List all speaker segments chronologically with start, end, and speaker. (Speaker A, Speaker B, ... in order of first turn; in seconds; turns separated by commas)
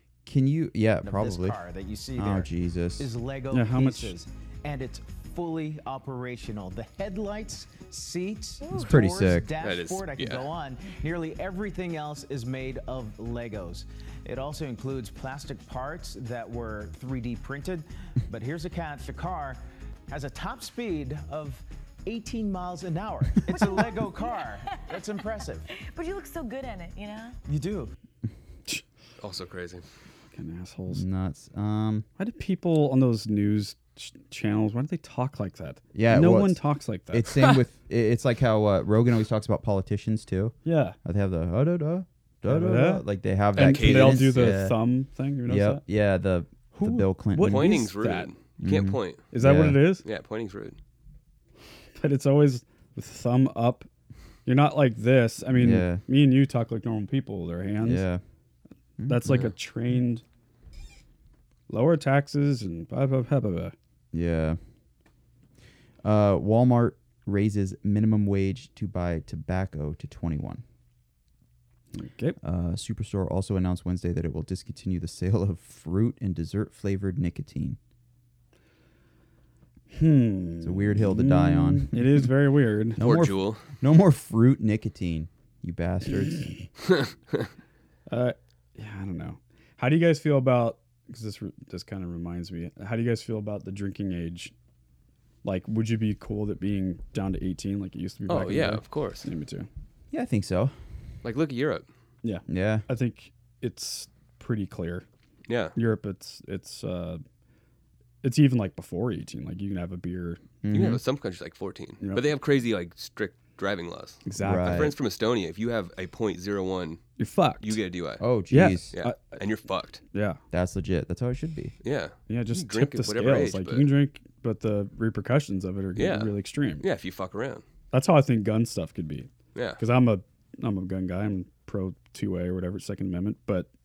Speaker A: 0.3-1.6, Speaker B: 1.0-25.7, Speaker A: 2.2-3.1, Speaker C: 3.5-4.2, Speaker A: 8.7-9.5, Speaker D: 9.6-10.5, Speaker E: 23.5-25.3, Speaker E: 25.9-27.4, Speaker B: 27.5-27.9, Speaker D: 29.2-29.8, Speaker C: 30.3-31.0, Speaker A: 30.9-32.1, Speaker C: 32.2-37.5, Speaker A: 35.9-36.6, Speaker A: 37.1-44.8, Speaker C: 40.6-41.0, Speaker C: 42.5-43.0, Speaker D: 43.6-44.3, Speaker C: 43.6-45.8, Speaker A: 45.5-47.7, Speaker C: 46.8-48.3, Speaker D: 47.5-49.3, Speaker A: 48.6-49.8, Speaker C: 49.3-50.0, Speaker D: 50.0-50.8, Speaker C: 52.0-53.9, Speaker C: 54.5-58.0, Speaker A: 55.5-56.0, Speaker A: 57.8-58.2, Speaker A: 59.0-59.5, Speaker C: 59.1-60.2, Speaker C: 61.7-63.8, Speaker A: 64.1-64.6, Speaker A: 66.0-70.6, Speaker C: 72.0-72.4, Speaker A: 72.4-77.8, Speaker C: 79.9-83.0, Speaker A: 80.6-82.3, Speaker A: 83.0-86.5, Speaker D: 83.0-83.7, Speaker D: 87.0-87.5, Speaker C: 88.1-94.5, Speaker C: 95.4-99.7, Speaker D: 98.3-99.3, Speaker A: 100.1-100.7, Speaker D: 101.2-101.9, Speaker C: 102.2-105.1, Speaker A: 102.5-102.9, Speaker D: 105.5-105.8, Speaker C: 105.8-107.2, Speaker C: 108.2-110.4, Speaker A: 110.6-111.0, Speaker D: 110.7-117.0, Speaker C: 114.3-114.8, Speaker A: 114.4-114.9, Speaker C: 117.2-117.8, Speaker D: 117.6-118.2, Speaker A: 118.2-118.9, Speaker C: 118.5-119.4, Speaker D: 118.9-120.0, Speaker C: 120.1-120.4, Speaker A: 120.5-121.7, Speaker D: 121.8-123.9, Speaker C: 122.3-126.8, Speaker D: 126.0-127.6, Speaker C: 127.9-133.7, Speaker D: 129.6-129.8